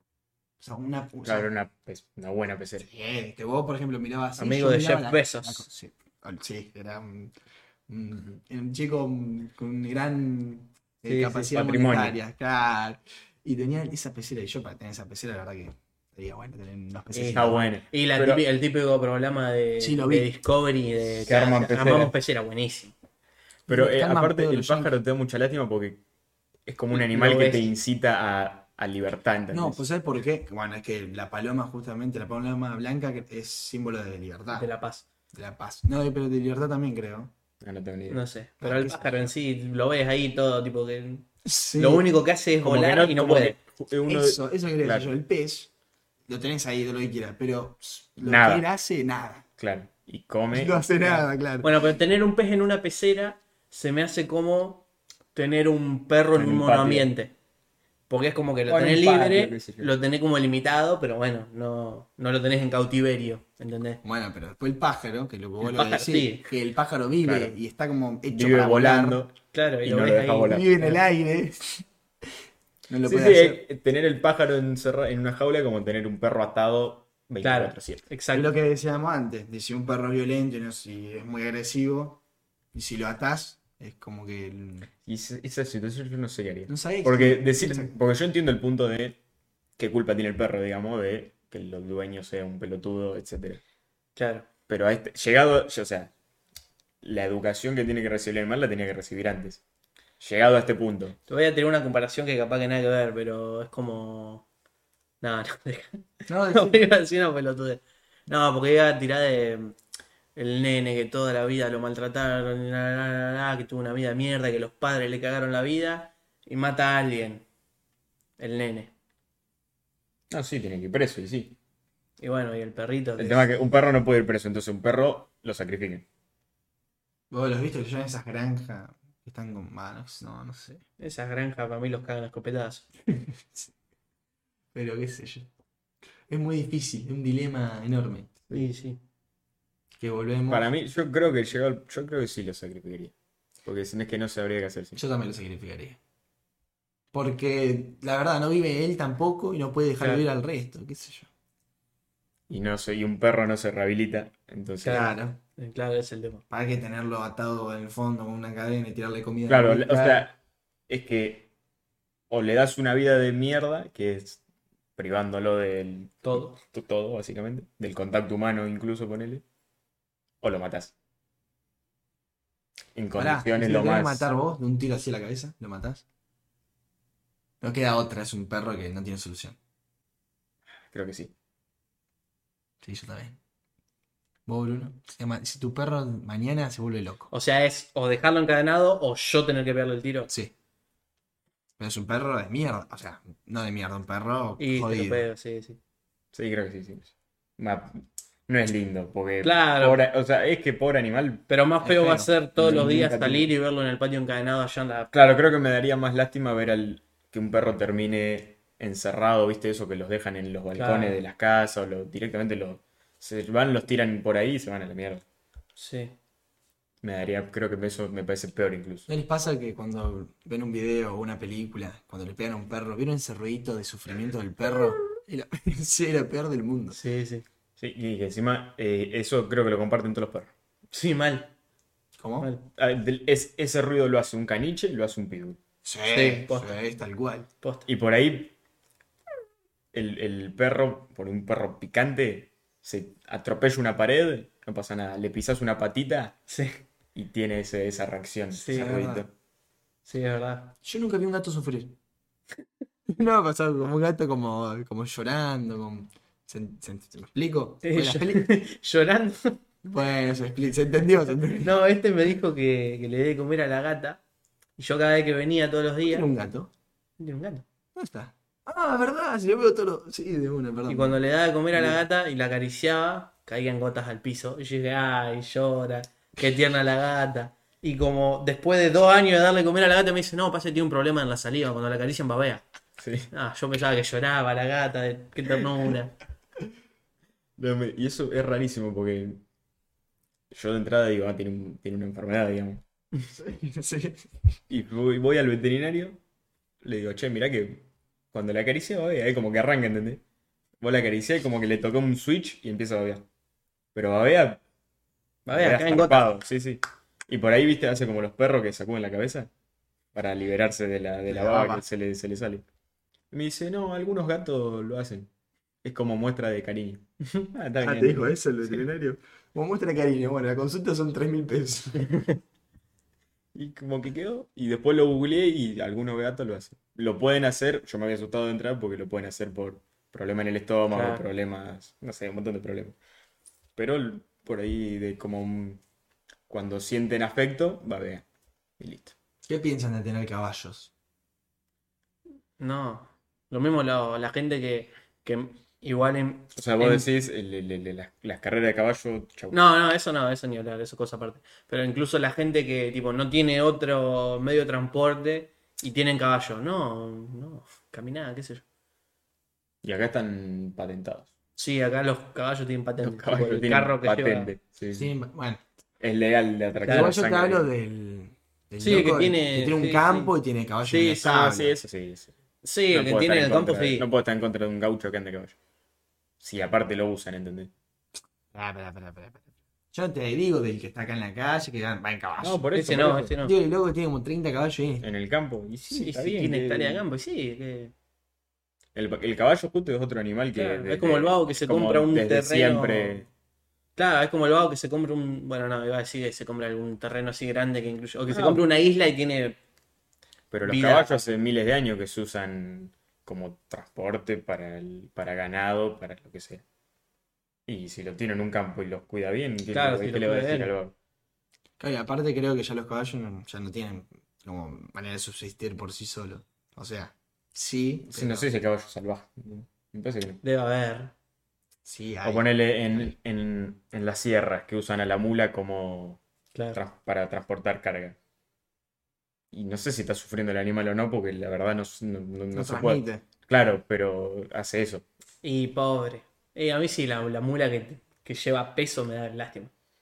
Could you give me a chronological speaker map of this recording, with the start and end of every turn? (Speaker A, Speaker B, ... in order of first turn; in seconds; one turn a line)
Speaker A: 0.6-1.5
Speaker B: 1.2-2.9
Speaker A: 2.8-7.3
Speaker C: 4.4-5.7
Speaker A: 7.9-17.7
Speaker B: 11.2-12.2
Speaker C: 17.1-22.9
Speaker B: 17.3-18.4
Speaker A: 19.8-20.3
Speaker B: 21.2-22.1
Speaker A: 23.7-24.9
Speaker B: 23.7-26.0
Speaker B: 26.7-29.8
Speaker C: 26.9-27.7
Speaker A: 29.5-34.7
Speaker C: 34.5-35.0
Speaker A: 35.3-37.3
Speaker B: 37.6-38.2
Speaker C: 38.1-43.6
Speaker A: 38.6-39.3
Speaker A: 41.5-42.1
Speaker B: 42.6-45.1
Speaker A: 44.1-45.7
Speaker A: 46.3-49.5
Speaker B: 48.2-48.6
Speaker B: 49.6-50.9
Speaker A: 50.5-51.7
Speaker C: 51.6-57.3
Speaker B: 56.3-57.1
Speaker C: 58.1-64.0
Speaker B: 58.7-59.9
Speaker A: 64.0-69.2
Speaker C: 65.6-66.5
Speaker B: 67.2-67.6
Speaker B: 68.3-70.7
Speaker C: 69.5-71.0
Speaker A: 70.5-71.9
Speaker A: 72.9-73.6
Speaker B: 73.0-78.0
Speaker C: 77.4-78.5
Speaker A: 78.3-82.2
Speaker A: 82.7-84.9
Speaker B: 85.0-89.2
Speaker A: 86.7-87.9
Speaker B: 89.8-93.6
Speaker C: 94.2-94.5
Speaker B: 94.7-96.1
Speaker B: 97.0-99.6
Speaker B: 100.2-101.2
Speaker C: 101.3-104.5
Speaker C: 105.2-109.8
Speaker A: 106.3-106.8
Speaker C: 110.4-117.4
Speaker C: 118.4-118.9
Speaker B: 120.3-121.6
Speaker C: 122.2-123.5
Speaker B: 123.2-126.1
Speaker A: 127.3-130.8
Speaker C: 131.0-132.9
Speaker A: 133.2-133.7
Speaker A: 134.7-135.5
Speaker A: 136.3-138.4
Speaker C: 138.5-139.0
Speaker A: 140.0-140.7
Speaker B: 140.5-143.1
Speaker B: 143.7-145.0
Speaker A: 144.9-146.0
Speaker A: 147.1-151.3
Speaker C: 150.0-150.3
Speaker B: 152.5-155.1
Speaker C: 154.8-156.4
Speaker A: 154.8-155.4
Speaker A: 156.5-160.3
Speaker B: 159.5-160.4
Speaker B: 160.9-161.5
Speaker B: 162.3-164.4
Speaker B: 165.0-169.4
Speaker C: 166.2-166.6
Speaker B: 170.4-170.9
Speaker B: 172.9-174.3
Speaker A: 173.2-176.0
Speaker A: 177.6-179.6
Speaker B: 180.9-181.3
Speaker A: 182.8-183.4
Speaker A: 184.5-187.3
Speaker C: 187.3-190.3
Speaker A: 191.8-195.2
Speaker C: 194.6-195.8
Speaker B: 196.3-201.4
Speaker C: 199.4-200.0
Speaker C: 201.5-205.1
Speaker A: 201.8-202.3
Speaker B: 202.6-203.5
Speaker B: 205.1-215.2
Speaker C: 210.8-211.2
Speaker C: 215.8-216.2
Speaker B: 217.0-219.1
Speaker A: 219.1-227.0
Speaker C: 226.9-227.4
Speaker B: 227.8-230.5
Speaker C: 230.9-231.5
Speaker A: 232.2-232.5
Speaker C: 232.4-232.7
Speaker B: 232.8-235.6
Speaker A: 235.8-237.5
Speaker C: 236.1-236.8
Speaker C: 237.6-237.9
Speaker B: 237.9-238.5
Speaker B: 239.9-246.4
Speaker C: 246.5-246.8
Speaker B: 247.2-249.3
Speaker C: 248.5-249.0
Speaker A: 248.7-249.3
Speaker C: 250.1-250.8
Speaker A: 250.8-252.0
Speaker A: 253.1-258.5
Speaker C: 257.8-259.6
Speaker A: 259.8-261.7
Speaker C: 261.6-264.2
Speaker C: 264.8-266.3
Speaker A: 266.1-266.7
Speaker C: 267.2-267.6
Speaker A: 268.0-271.2
Speaker C: 270.9-282.6
Speaker A: 271.7-272.0
Speaker B: 283.0-283.3
Speaker C: 283.3-286.2
Speaker B: 287.6-289.4
Speaker B: 290.5-292.8
Speaker A: 293.3-294.3
Speaker B: 294.7-296.2
Speaker B: 296.8-300.2
Speaker B: 300.8-303.3
Speaker B: 303.9-304.6
Speaker C: 305.5-306.3
Speaker B: 305.5-309.5
Speaker B: 310.1-312.6
Speaker A: 311.3-311.8
Speaker B: 313.3-315.3
Speaker B: 315.8-318.8
Speaker A: 317.8-322.2
Speaker B: 323.5-333.0
Speaker C: 330.9-331.2
Speaker B: 333.8-335.8
Speaker B: 336.5-338.2
Speaker B: 338.8-339.1
Speaker A: 339.5-340.9
Speaker C: 342.6-347.1
Speaker B: 346.6-349.6
Speaker C: 349.5-358.6
Speaker B: 359.8-361.3
Speaker C: 361.6-364.5
Speaker B: 363.0-365.1
Speaker A: 364.9-365.6
Speaker B: 366.0-367.7
Speaker C: 366.8-367.2
Speaker A: 366.9-371.8
Speaker C: 368.8-370.3
Speaker C: 370.9-371.4
Speaker B: 371.2-372.3
Speaker C: 372.6-374.1
Speaker B: 372.9-375.6
Speaker B: 376.4-377.7
Speaker A: 378.5-382.7
Speaker B: 382.4-383.4
Speaker C: 382.7-383.5
Speaker A: 383.3-385.1
Speaker B: 385.0-387.0
Speaker C: 385.9-387.9
Speaker B: 388.9-393.3
Speaker C: 390.5-393.3
Speaker C: 394.0-399.6
Speaker B: 398.3-398.6
Speaker B: 400.5-406.6
Speaker C: 400.6-401.2
Speaker B: 407.7-410.9
Speaker C: 409.7-410.7
Speaker A: 411.8-418.5
Speaker B: 418.1-420.4
Speaker C: 420.4-421.1
Speaker A: 421.9-423.1
Speaker B: 422.2-426.2
Speaker C: 426.5-426.8
Speaker B: 426.7-428.2
Speaker B: 429.5-435.1
Speaker A: 432.5-433.2
Speaker C: 435.4-439.7